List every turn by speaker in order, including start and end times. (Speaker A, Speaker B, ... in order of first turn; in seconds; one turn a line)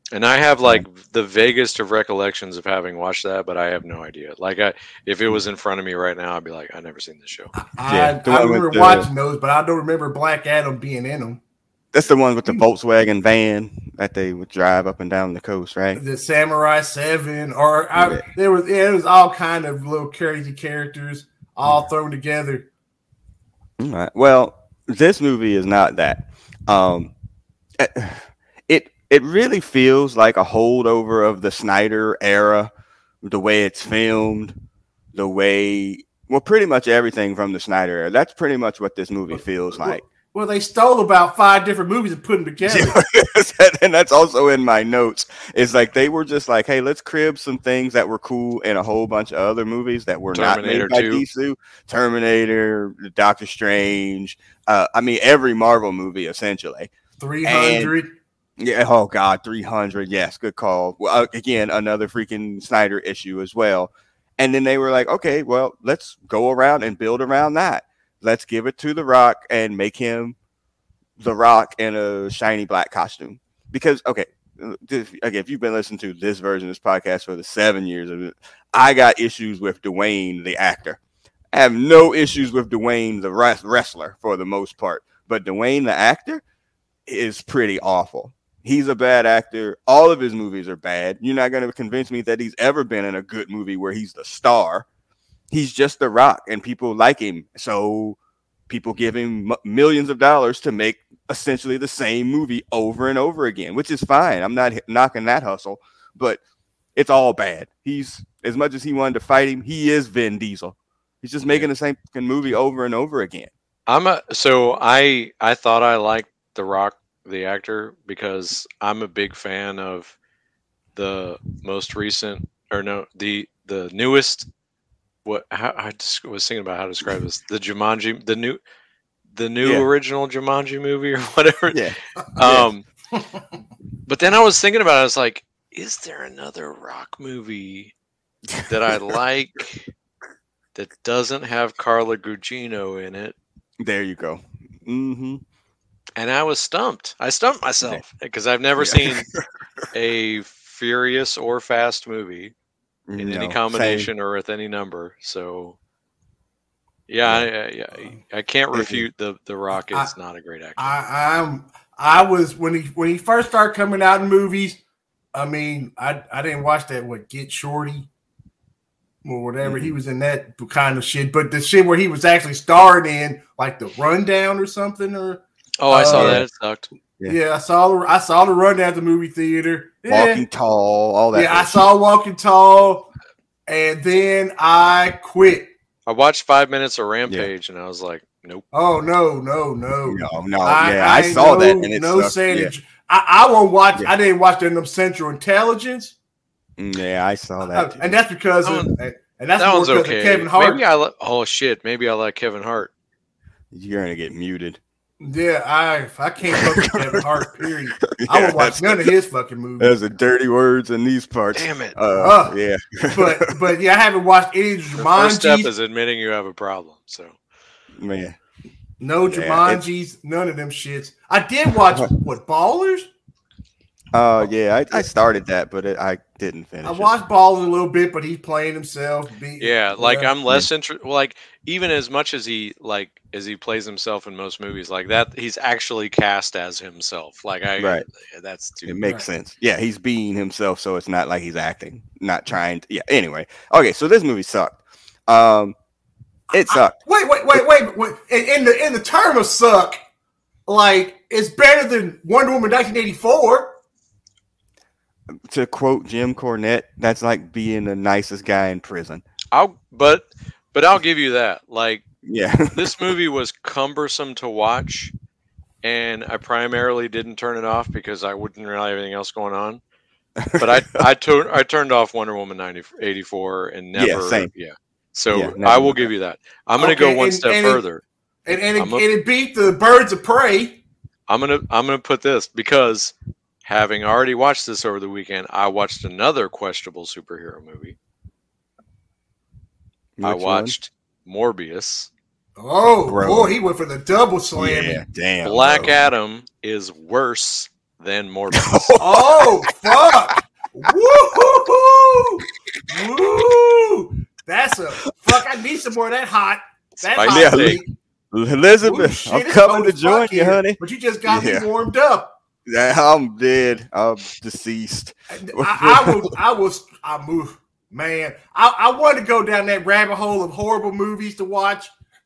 Speaker A: 0.1-7.5
Speaker B: 7.5-11.4
Speaker C: 7.9-9.1
Speaker C: 11.9-16.0
Speaker B: 15.9-22.7
Speaker C: 17.9-18.2
Speaker C: 21.6-21.9
Speaker C: 23.8-27.1
Speaker C: 27.8-32.7
Speaker C: 33.2-34.5
Speaker C: 35.1-40.0
Speaker B: 39.3-43.0
Speaker C: 42.6-56.9
Speaker A: 50.3-51.2
Speaker B: 57.2-58.1
Speaker C: 57.4-57.9
Speaker C: 58.6-70.3
Speaker C: 71.2-81.0
Speaker C: 81.5-86.4
Speaker C: 87.1-94.8
Speaker C: 95.5-98.2
Speaker C: 98.7-106.4
Speaker C: 107.0-113.5
Speaker A: 113.9-120.2
Speaker A: 120.9-124.5
Speaker A: 125.2-128.6
Speaker A: 129.3-131.8
Speaker C: 131.7-132.7
Speaker A: 132.3-132.9
Speaker A: 134.1-137.9
Speaker A: 138.6-139.9
Speaker A: 140.7-143.3
Speaker C: 143.8-145.4
Speaker A: 146.2-149.3
Speaker C: 148.8-149.4
Speaker A: 149.9-152.5
Speaker C: 153.1-154.1
Speaker A: 153.2-155.8
Speaker A: 157.1-160.9
Speaker C: 158.7-159.1
Speaker B: 160.8-164.8
Speaker B: 165.3-168.1
Speaker B: 169.2-176.4
Speaker C: 169.6-169.9
Speaker A: 175.8-176.9
Speaker C: 176.1-176.4
Speaker B: 177.2-180.4
Speaker C: 180.1-181.9
Speaker B: 181.3-183.1
Speaker B: 183.7-185.7
Speaker A: 186.1-188.6
Speaker B: 188.7-196.2
Speaker C: 190.0-192.7
Speaker C: 196.8-198.2
Speaker B: 197.7-200.8
Speaker A: 198.6-198.9
Speaker A: 199.6-202.9
Speaker C: 203.7-204.8
Speaker B: 205.2-210.0
Speaker C: 206.5-209.1
Speaker C: 209.8-213.6
Speaker A: 211.5-211.9
Speaker B: 212.2-212.6
Speaker B: 213.1-215.7
Speaker A: 215.0-217.4
Speaker C: 218.0-218.4
Speaker B: 219.0-223.1
Speaker C: 219.3-219.8
Speaker C: 224.1-227.1
Speaker B: 226.8-230.3
Speaker A: 229.6-239.0
Speaker C: 237.8-238.0
Speaker C: 238.8-245.8
Speaker B: 246.5-250.0
Speaker C: 246.5-246.9
Speaker B: 250.7-253.8
Speaker C: 255.5-259.2
Speaker A: 259.5-262.0
Speaker C: 262.2-263.0
Speaker A: 262.7-265.1
Speaker A: 265.8-269.8
Speaker C: 270.4-271.1
Speaker A: 270.6-278.0
Speaker C: 273.9-274.5
Speaker C: 275.3-276.1
Speaker B: 276.8-277.8
Speaker B: 278.4-280.8
Speaker A: 278.8-279.1
Speaker A: 281.3-287.9
Speaker C: 290.2-290.7
Speaker A: 290.2-292.1
Speaker B: 292.6-295.0
Speaker C: 293.1-293.6
Speaker C: 294.6-296.0
Speaker A: 295.4-299.0
Speaker C: 298.5-300.4
Speaker B: 299.0-307.9
Speaker A: 307.0-307.8
Speaker C: 307.2-307.8
Speaker C: 308.3-311.7
Speaker B: 308.8-312.4
Speaker C: 312.6-316.4
Speaker B: 315.3-321.9